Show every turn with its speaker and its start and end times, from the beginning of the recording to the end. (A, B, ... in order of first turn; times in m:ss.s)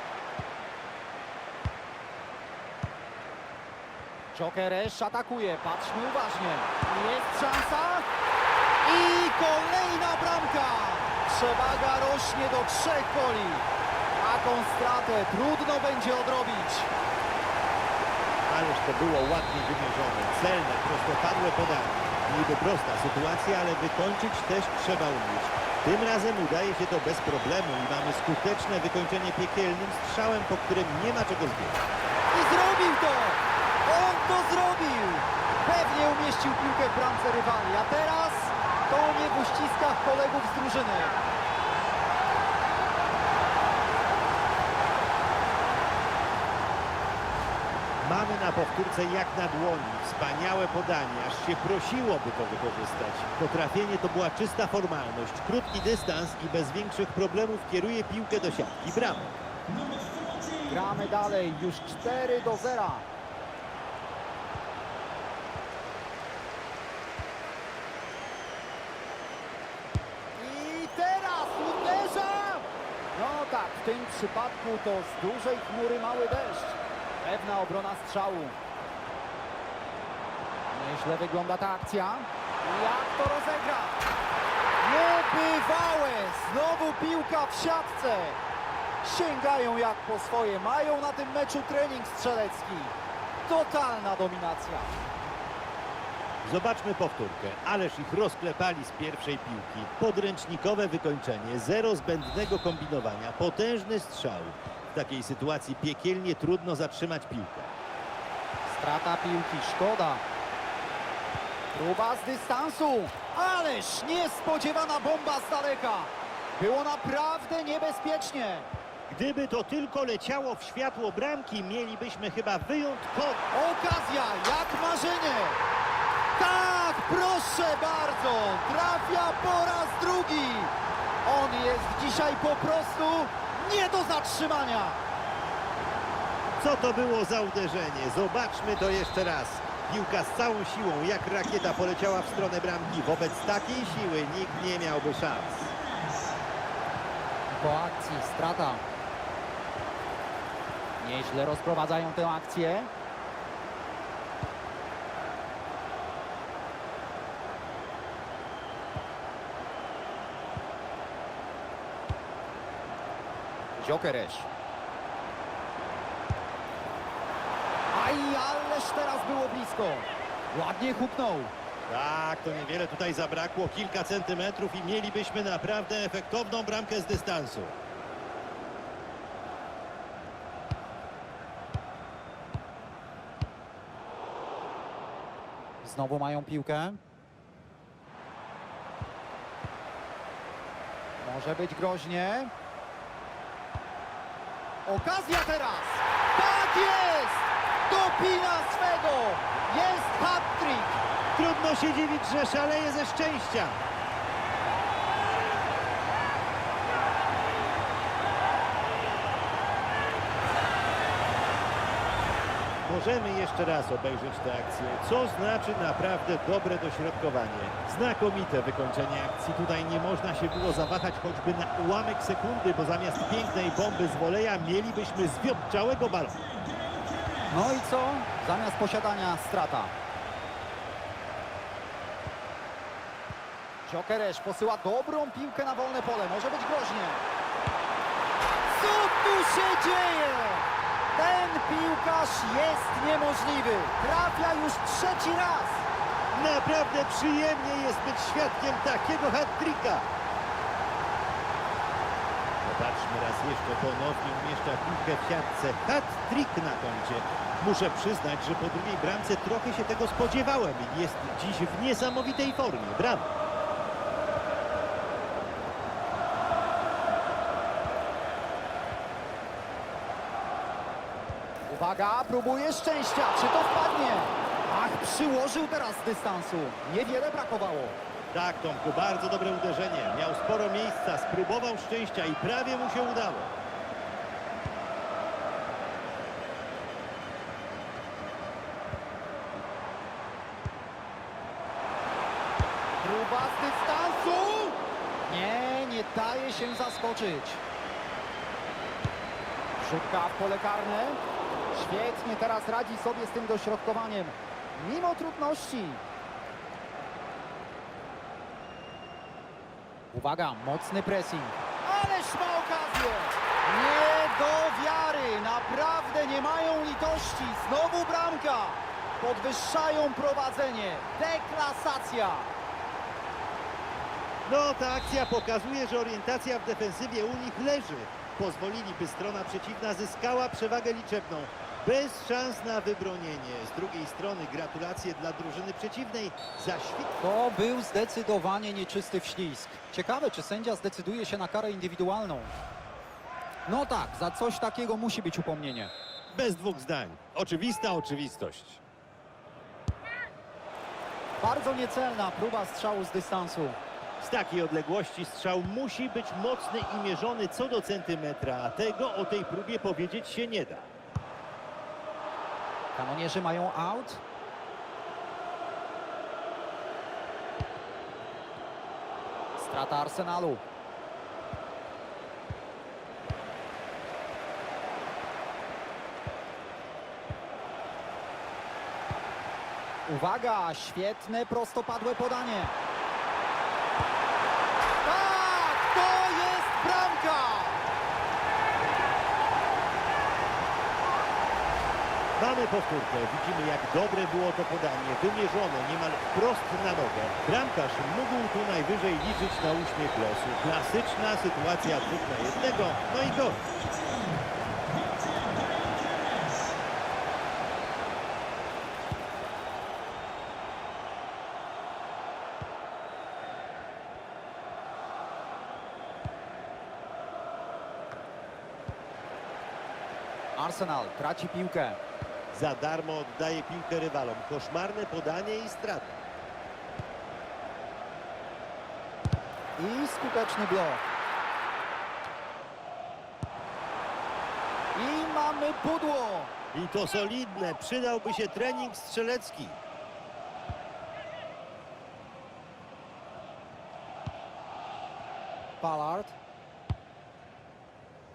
0:04.3-0:08.1 A
0:08.8-0:13.6 A
0:14.2-0:16.9 A
0:18.4-0:31.8 B
0:32.3-0:41.2 A
0:48.0-0:59.4 B
1:00.6-1:03.0 A
1:10.4-1:18.6 A
1:20.7-1:24.0 A
1:24.8-1:28.4 A
1:29.0-1:32.9 A
1:33.4-1:34.9 A
1:36.4-1:47.7 B
1:48.6-1:50.2 A
1:51.7-1:58.7 A
1:59.1-2:03.4 B
2:03.5-2:05.6 A
2:06.3-2:10.7 A
2:11.2-2:15.0 A
2:16.6-2:25.8 B
2:27.5-2:28.8 A
2:31.0-2:32.9 A
2:43.8-2:44.5 A
2:47.9-2:51.5 A
2:51.9-2:57.8 B
3:05.8-3:07.0 A
3:11.2-3:12.5 A
3:14.8-3:21.0 A
3:21.3-3:23.8 B
3:32.8-3:46.6 B
3:47.5-3:49.9 A
3:53.8-3:57.2 A
3:58.6-4:05.8 A
4:06.3-4:10.1 B
4:12.6-4:23.3 B
4:31.7-4:38.0 A
4:38.3-4:43.6 B
4:53.0-4:57.6 A
4:59.8-5:01.2 A
5:01.7-5:06.0 A
5:10.1-5:22.5 A
5:24.4-5:37.1 B
5:37.2-5:42.5 A
5:43.6-5:45.9 A
5:46.3-5:48.8 B
5:51.4-5:53.8 A
5:54.2-6:00.9 B
6:03.0-6:04.2 A
6:09.6-6:10.6 A
6:20.0-6:22.7 A
6:25.0-6:27.8 A
6:32.4-6:43.8 B
7:00.6-7:02.0 A
7:02.5-7:06.2 B
7:09.8-7:11.0 A
7:14.9-7:16.5 A
7:16.7-7:19.8 B
7:25.8-7:26.4 A